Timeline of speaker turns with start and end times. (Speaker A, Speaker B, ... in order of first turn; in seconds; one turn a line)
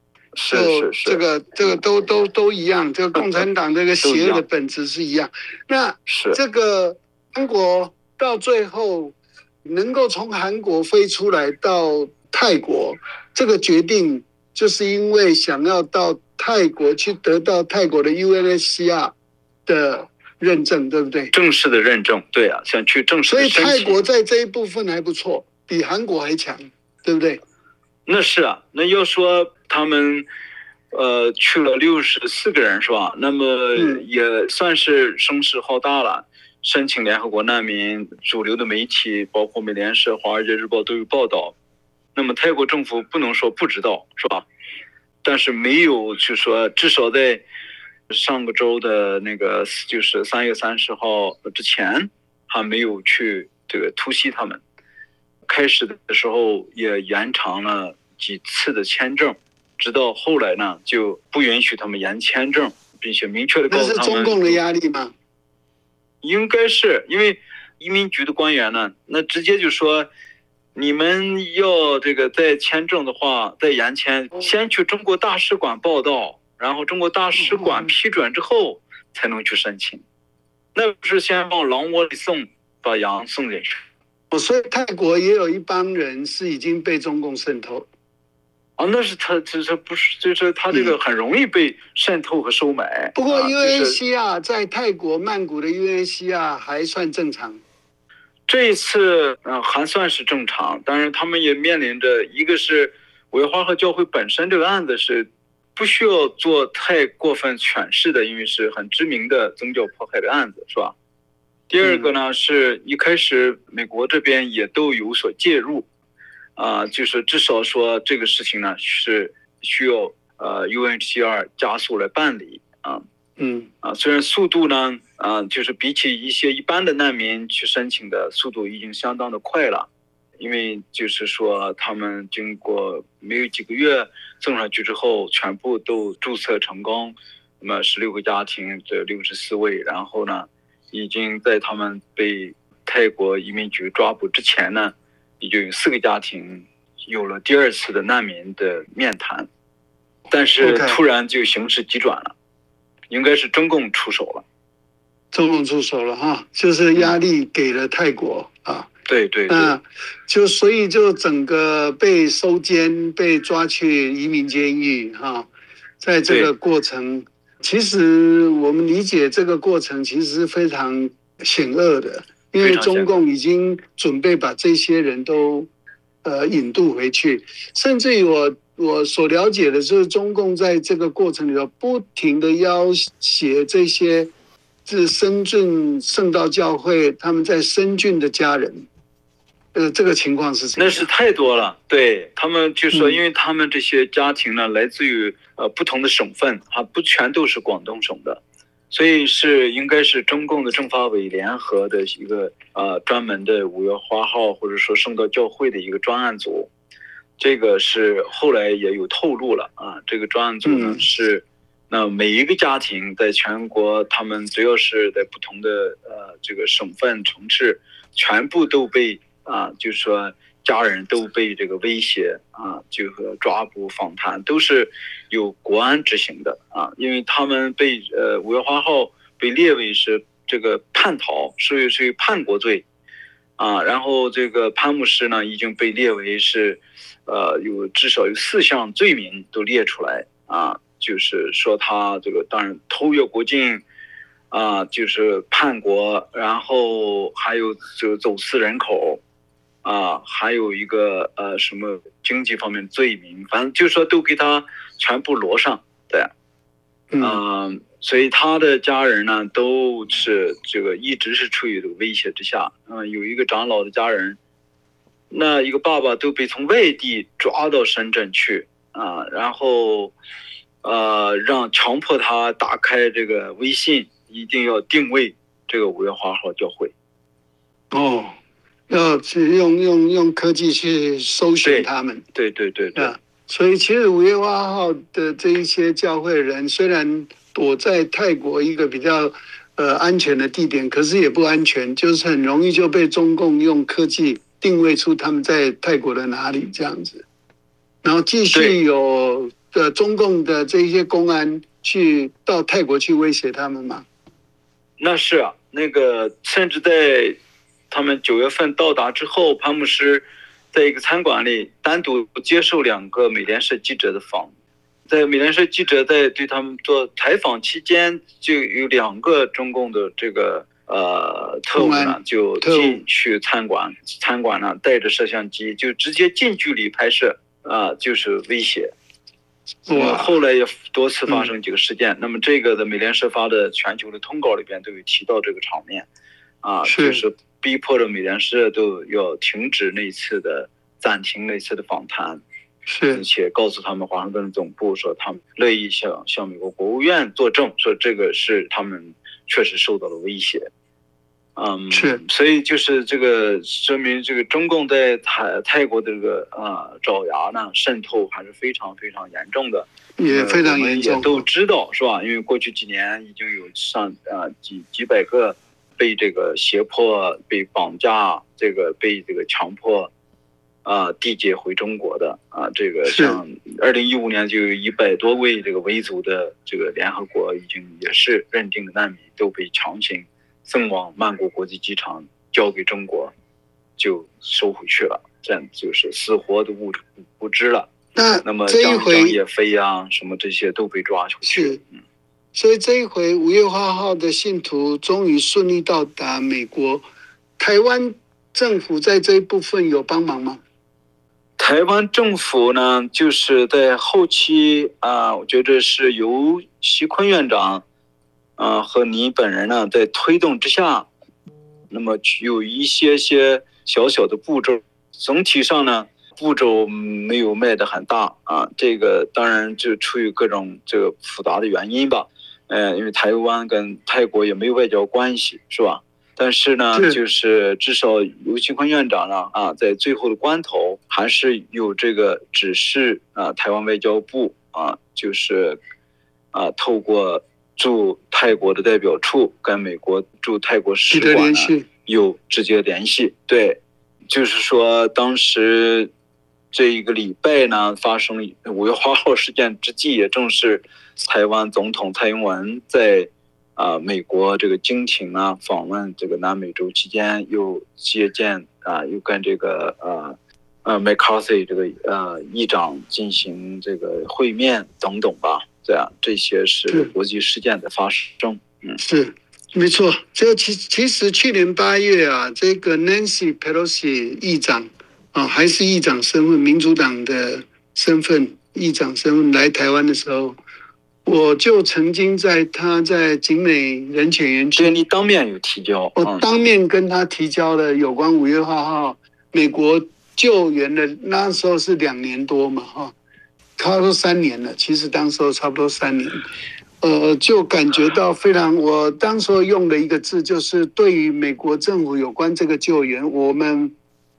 Speaker A: 0.3-1.8
Speaker B: 0.5-19.1
Speaker A: 3.1-3.5
Speaker A: 4.0-4.4
Speaker A: 6.1-6.4
Speaker B: 19.6-21.3
Speaker A: 21.3-24.0
Speaker B: 23.3-27.4
Speaker A: 28.1-30.2
Speaker A: 30.9-41.5
Speaker B: 33.8-34.0
Speaker A: 42.1-44.5
Speaker A: 45.2-47.4
Speaker A: 48.1-54.6
Speaker A: 55.5-64.6
Speaker B: 63.7-65.1
Speaker A: 66.2-70.1
Speaker A: 70.7-80.0
Speaker B: 77.4-77.9
Speaker A: 80.7-83.8
Speaker B: 84.3-87.9
Speaker A: 88.8-94.0
Speaker B: 93.2-97.6
Speaker A: 98.5-110.9
Speaker A: 111.7-115.9
Speaker B: 111.8-112.1
Speaker A: 116.5-123.0
Speaker B: 123.4-123.7
Speaker A: 123.8-129.9
Speaker A: 130.4-149.5
Speaker A: 150.3-152.3
Speaker B: 150.6-151.0
Speaker A: 153.1-154.4
Speaker B: 155.3-158.9
Speaker A: 159.1-159.8
Speaker B: 159.5-175.7
Speaker A: 172.6-173.1
Speaker B: 176.2-184.3
Speaker B: 184.8-188.9
Speaker B: 189.7-191.1
Speaker A: 190.8-206.7
Speaker B: 192.9-193.2
Speaker A: 207.4-232.8
Speaker B: 210.6-211.0
Speaker A: 233.6-243.8
Speaker A: 244.5-249.2
Speaker A: 249.8-256.3
Speaker B: 257.1-257.4
Speaker A: 257.2-264.4
Speaker A: 265.3-270.1
Speaker A: 270.8-276.9
Speaker B: 277.9-278.4
Speaker B: 278.9-282.2
Speaker A: 281.6-283.1
Speaker B: 282.9-297.2
Speaker B: 298.0-304.1
Speaker A: 298.5-298.8
Speaker A: 305.0-307.4
Speaker A: 307.9-314.5
Speaker A: 315.1-328.9
Speaker B: 321.7-323.0
Speaker B: 329.9-330.3
Speaker A: 329.9-336.1
Speaker A: 336.6-342.4
Speaker B: 336.8-337.2
Speaker B: 342.9-343.2
Speaker A: 343.1-350.7
Speaker A: 351.6-370.1
Speaker B: 351.9-352.2
Speaker B: 360.2-361.4
Speaker A: 370.8-383.3
Speaker B: 373.1-373.4
Speaker A: 384.0-387.9
Speaker B: 388.1-389.4
Speaker A: 388.4-391.8
Speaker B: 391.4-391.8
Speaker B: 392.5-397.1
Speaker B: 397.6-400.6
Speaker A: 401.6-407.8
Speaker A: 408.6-411.1
Speaker A: 411.9-435.8
Speaker B: 426.9-427.2
Speaker A: 436.5-446.1
Speaker B: 441.1-441.9
Speaker A: 446.7-469.0
Speaker B: 469.0-480.6
Speaker B: 481.2-484.9
Speaker A: 484.8-486.5
Speaker B: 486.1-493.1
Speaker B: 493.8-496.4
Speaker B: 497.0-503.9